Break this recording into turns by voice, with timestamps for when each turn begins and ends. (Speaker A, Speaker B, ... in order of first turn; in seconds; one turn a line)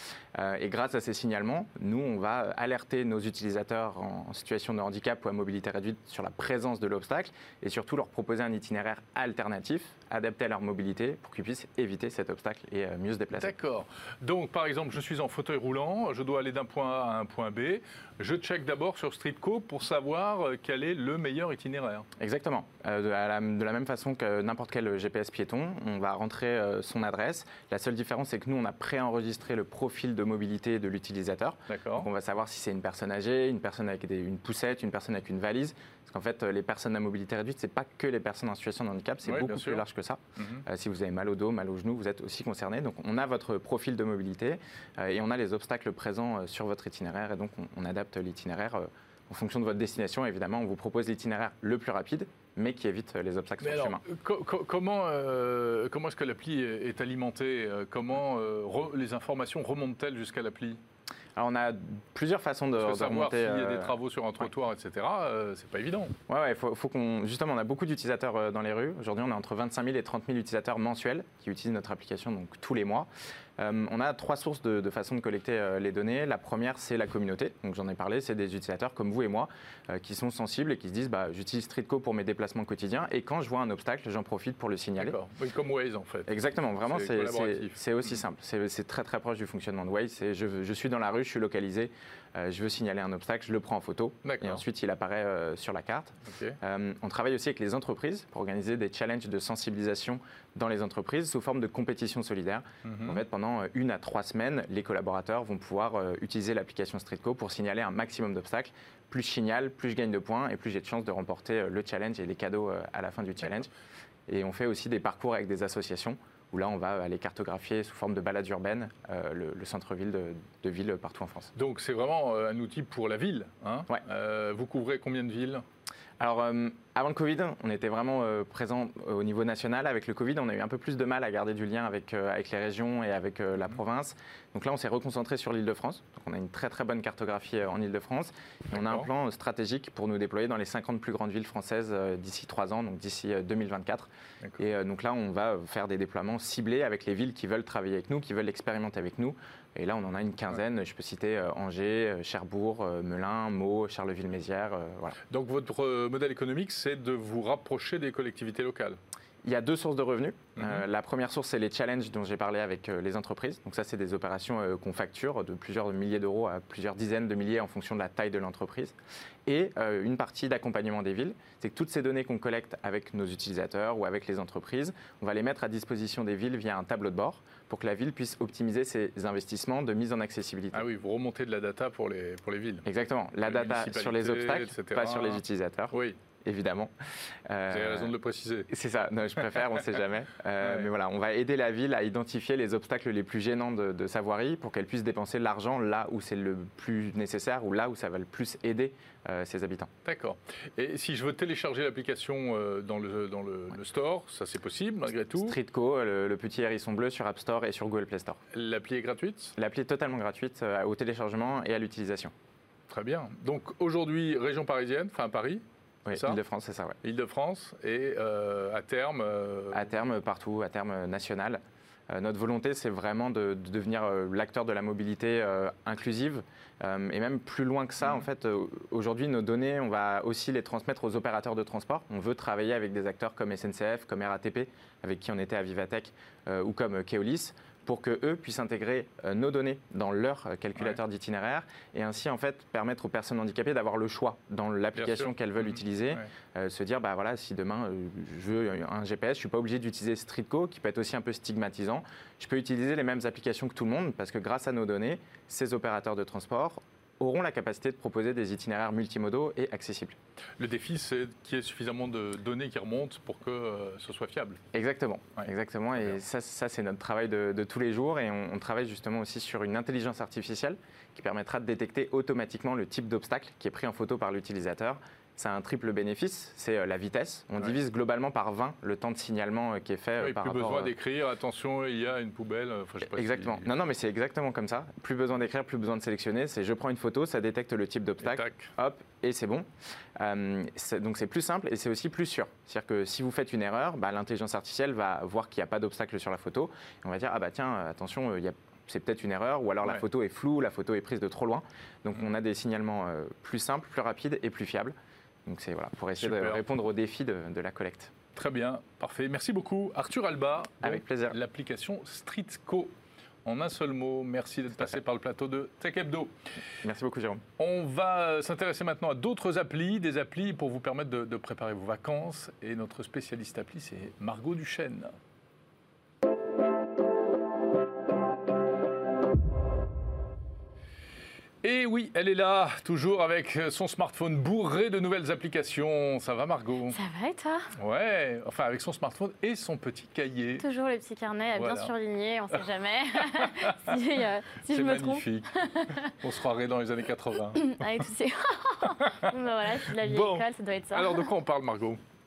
Speaker A: 0.3-13.5
Speaker B: 13.4-22.1
Speaker A: 22.2-54.0
Speaker B: 31.7-32.1
Speaker B: 39.2-39.8
Speaker B: 40.4-40.6
Speaker B: 53.6-60.8
Speaker A: 61.4-63.9
Speaker B: 62.8-66.2
Speaker A: 66.3-85.2
Speaker B: 85.0-87.8
Speaker A: 86.3-113.7
Speaker B: 94.2-94.6
Speaker B: 96.2-96.6
Speaker B: 102.8-103.2
Speaker A: 114.3-121.5
Speaker B: 121.5-125.6
Speaker A: 126.2-155.2
Speaker B: 138.8-139.1
Speaker B: 155.3-159.0
Speaker A: 159.4-180.8
Speaker B: 160.6-160.8
Speaker B: 180.7-182.9
Speaker A: 182.8-186.9
Speaker B: 183.4-186.2
Speaker A: 187.5-188.1
Speaker B: 187.7-188.7
Speaker A: 188.7-199.9
Speaker B: 190.6-190.9
Speaker B: 200.0-205.6
Speaker A: 205.4-208.4
Speaker B: 208.5-209.5
Speaker A: 209.6-212.3
Speaker B: 212.9-216.4
Speaker A: 216.0-217.0
Speaker B: 217.0-219.8
Speaker A: 219.7-260.2
Speaker B: 244.9-246.2
Speaker B: 260.6-264.6
Speaker A: 264.7-280.9
Speaker B: 280.2-283.7
Speaker A: 283.1-308.1
Speaker B: 288.2-288.7
Speaker B: 306.2-306.6
Speaker B: 308.3-312.9
Speaker A: 310.8-311.4
Speaker B: 313.4-316.3
Speaker A: 316.8-317.4
Speaker B: 317.6-325.1
Speaker B: 331.6-337.0
Speaker C: 336.9-337.7
Speaker B: 337.8-340.6
Speaker C: 340.6-346.1
Speaker B: 341.5-341.9
Speaker B: 343.2-344.0
Speaker B: 344.7-347.7
Speaker C: 347.6-351.3
Speaker B: 349.0-349.3
Speaker B: 349.9-352.0